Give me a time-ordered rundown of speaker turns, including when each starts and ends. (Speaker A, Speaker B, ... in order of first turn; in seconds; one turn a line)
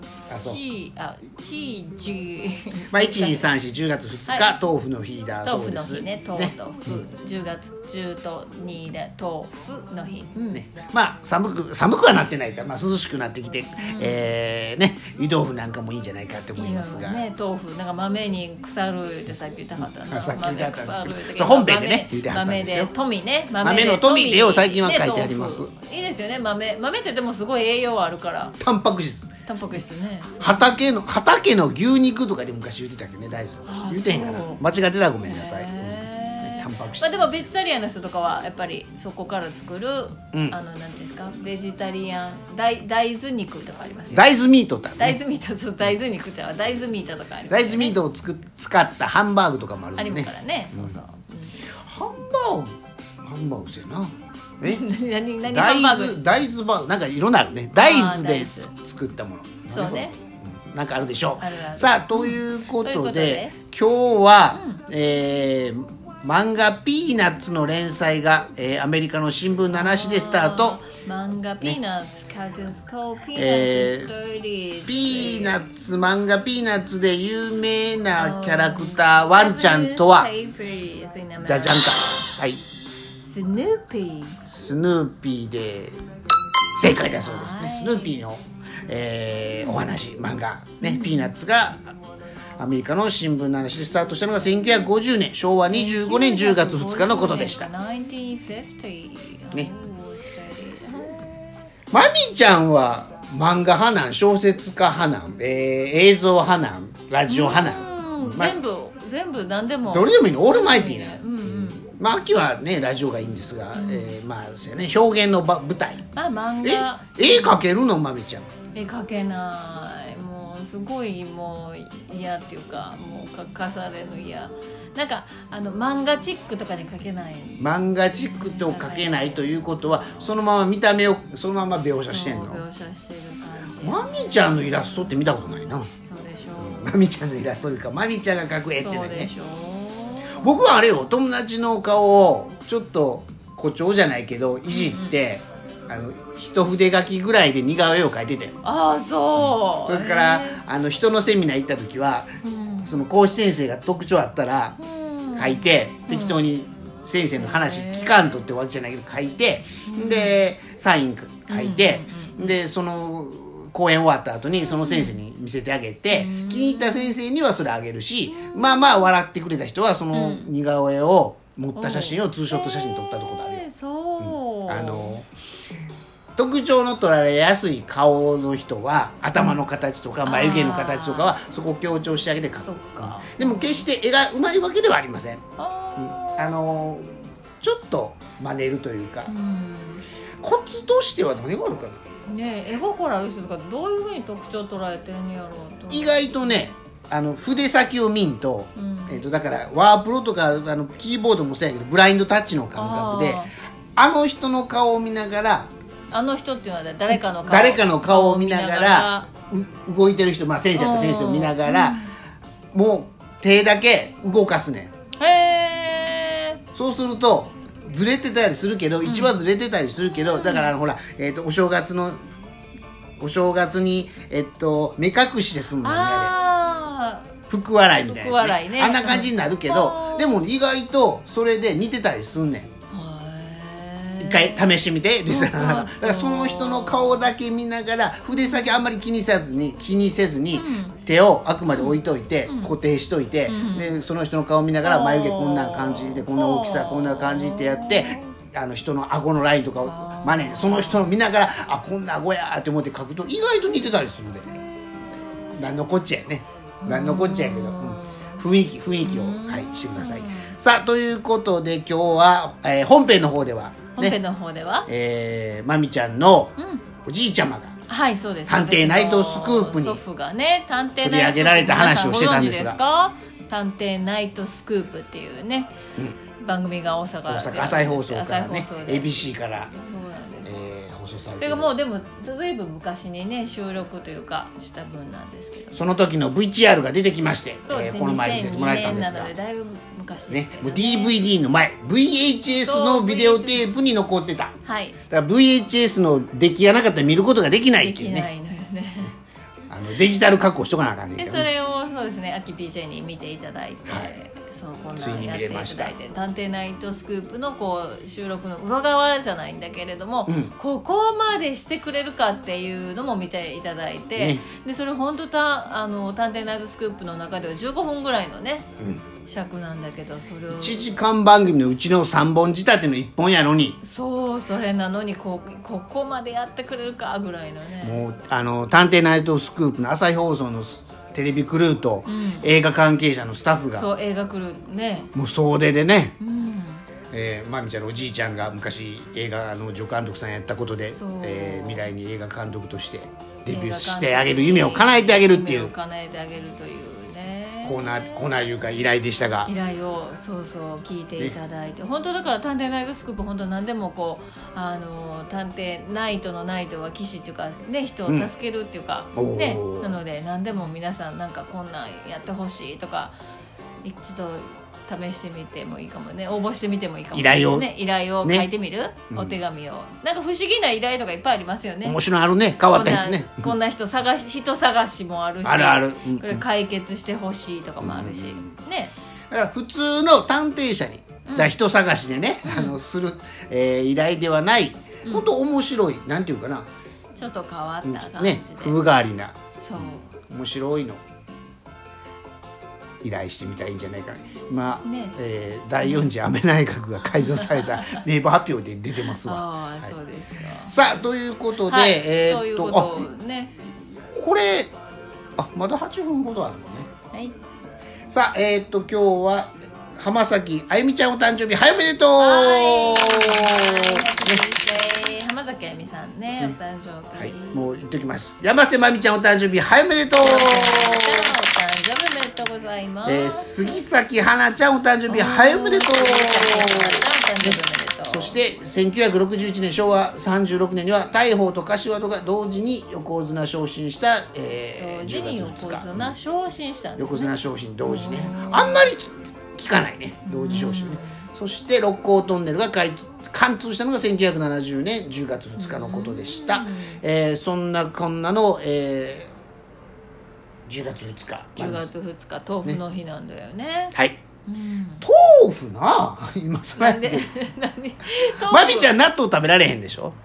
Speaker A: 0.3-0.6
Speaker B: 0.4-3.6
Speaker A: 2.9-7.0
Speaker B: 4.3-4.5
Speaker B: 5.4-10.6
Speaker A: 10.5-17.2
Speaker B: 13.8-14.3
Speaker B: 16.6-28.6
Speaker A: 20.1-22.9
Speaker A: 23.6-25.7
Speaker A: 28.6-29.3
Speaker B: 29.5-30.8
Speaker A: 30.4-37.5
Speaker B: 33.7-34.6
Speaker B: 35.2-44.4
Speaker A: 44.1-45.2
Speaker B: 45.0-48.0
Speaker A: 47.5-51.0
Speaker B: 50.0-51.7
Speaker A: 51.7-54.8
Speaker B: 54.6-56.2
Speaker A: 55.4-70.8
Speaker B: 57.8-58.7
Speaker B: 59.7-60.1
Speaker B: 61.4-63.5
Speaker B: 64.5-64.8
Speaker B: 69.7-75.6
Speaker A: 73.4-74.1
Speaker A: 74.9-80.3
Speaker B: 78.1-82.3
Speaker A: 81.5-82.6
Speaker B: 83.2-84.4
Speaker A: 84.5-86.0
Speaker A: 86.8-91.9
Speaker B: 87.1-88.2
Speaker B: 90.8-91.3
Speaker A: 92.6-97.7
Speaker B: 95.7-101.2
Speaker A: 101.9-108.6
Speaker B: 107.3-111.8
Speaker A: 109.9-116.1
Speaker B: 113.8-114.2
Speaker B: 116.1-117.7
Speaker A: 116.6-118.5
Speaker B: 118.8-130.3
Speaker A: 127.6-132.6
Speaker B: 131.9-134.9
Speaker A: 133.8-135.9
Speaker B: 136.0-137.0
Speaker A: 136.6-139.3
Speaker B: 138.8-140.7
Speaker A: 140.4-148.6
Speaker B: 144.7-145.2
Speaker B: 148.6-150.6
Speaker A: 149.4-154.8
Speaker B: 152.4-152.9
Speaker B: 154.8-156.5
Speaker A: 155.3-173.7
Speaker B: 157.3-158.4
Speaker B: 159.9-160.4
Speaker B: 161.5-162.6
Speaker B: 164.8-165.2
Speaker B: 166.1-167.2
Speaker B: 170.1-170.5
Speaker B: 171.8-175.2
Speaker A: 174.2-175.3
Speaker A: 176.4-185.4
Speaker B: 179.3-179.6
Speaker B: 180.2-181.4
Speaker B: 182.6-183.9
Speaker B: 185.6-186.6
Speaker A: 186.0-189.3
Speaker B: 189.3-190.0
Speaker A: 190.4-192.0
Speaker B: 192.3-196.6
Speaker A: 195.9-203.4
Speaker B: 198.8-199.2
Speaker B: 202.7-203.5
Speaker A: 204.0-205.7
Speaker B: 206.1-209.3
Speaker A: 207.1-212.0
Speaker B: 210.8-212.1
Speaker A: 212.7-214.9
Speaker B: 215.2-216.6
Speaker A: 216.7-222.2
Speaker B: 219.0-219.3
Speaker B: 220.4-220.7
Speaker A: 223.2-226.3
Speaker B: 225.8-227.3
Speaker A: 227.5-232.7
Speaker B: 228.0-230.4
Speaker B: 232.9-237.3
Speaker A: 234.2-254.7
Speaker B: 238.3-238.8
Speaker B: 240.5-241.0
Speaker B: 241.8-242.8
Speaker B: 243.5-244.0
Speaker B: 244.8-248.3
Speaker B: 249.8-251.2
Speaker B: 254.8-255.5
Speaker A: 255.5-264.2
Speaker B: 256.8-258.5
Speaker B: 259.0-260.6
Speaker B: 264.0-264.9
Speaker A: 264.9-267.8
Speaker B: 266.6-266.9
Speaker B: 267.9-275.7
Speaker A: 268.5-270.0
Speaker A: 271.0-272.8
Speaker B: 276.4-279.1
Speaker A: 277.3-279.7
Speaker B: 279.7-280.5
Speaker A: 280.4-281.7
Speaker B: 281.4-285.9
Speaker A: 285.7-289.3
Speaker B: 287.6-291.2
Speaker A: 290.3-294.5
Speaker B: 292.6-293.7
Speaker B: 294.6-295.0
Speaker A: 295.1-298.3
Speaker B: 297.8-299.1
Speaker A: 299.7-301.5
Speaker B: 301.1-318.7
Speaker A: 303.9-304.1
Speaker A: 305.0-305.9
Speaker A: 310.3-310.5
Speaker A: 314.2-314.4
Speaker B: 319.3-320.9
Speaker A: 320.5-323.8
Speaker B: 323.8-328.0
Speaker A: 327.8-333.9
Speaker B: 332.1-332.5
Speaker B: 333.7-335.1
Speaker A: 335.1-336.2
Speaker B: 336.2-336.8
Speaker A: 337.1-345.7
Speaker B: 340.8-341.9
Speaker B: 343.5-348.4
Speaker A: 347.6-349.5
Speaker B: 349.5-363.1
Speaker A: 359.2-360.0
Speaker B: 363.8-372.0
Speaker A: 367.1-367.7
Speaker A: 368.2-368.5
Speaker A: 369.1-369.4
Speaker A: 371.8-373.5
Speaker B: 372.7-378.9
Speaker A: 375.4-376.4
Speaker A: 377.8-378.5
Speaker A: 379.3-386.7
Speaker B: 381.3-381.6
Speaker B: 382.4-382.8
Speaker B: 387.1-388.8
Speaker A: 387.9-391.0
Speaker B: 389.6-390.1
Speaker A: 393.0-399.9
Speaker B: 394.8-395.2
Speaker B: 395.8-396.1
Speaker B: 397.1-398.0
Speaker B: 399.2-401.0
Speaker A: 400.6-403.1
Speaker B: 401.6-403.5
Speaker A: 404.1-404.7
Speaker A: 405.4-406.9
Speaker A: 408.1-414.4
Speaker B: 412.2-417.7
Speaker A: 417.2-421.3
Speaker B: 420.2-423.8
Speaker A: 423.1-436.2
Speaker B: 425.1-428.4
Speaker B: 434.8-438.9
Speaker A: 437.0-449.3
Speaker B: 440.2-441.2
Speaker B: 445.6-447.0
Speaker A: 450.7-451.9
Speaker B: 451.6-454.0
Speaker B: 454.5-455.1
Speaker A: 455.0-457.3
Speaker B: 456.8-459.0
Speaker A: 458.5-460.2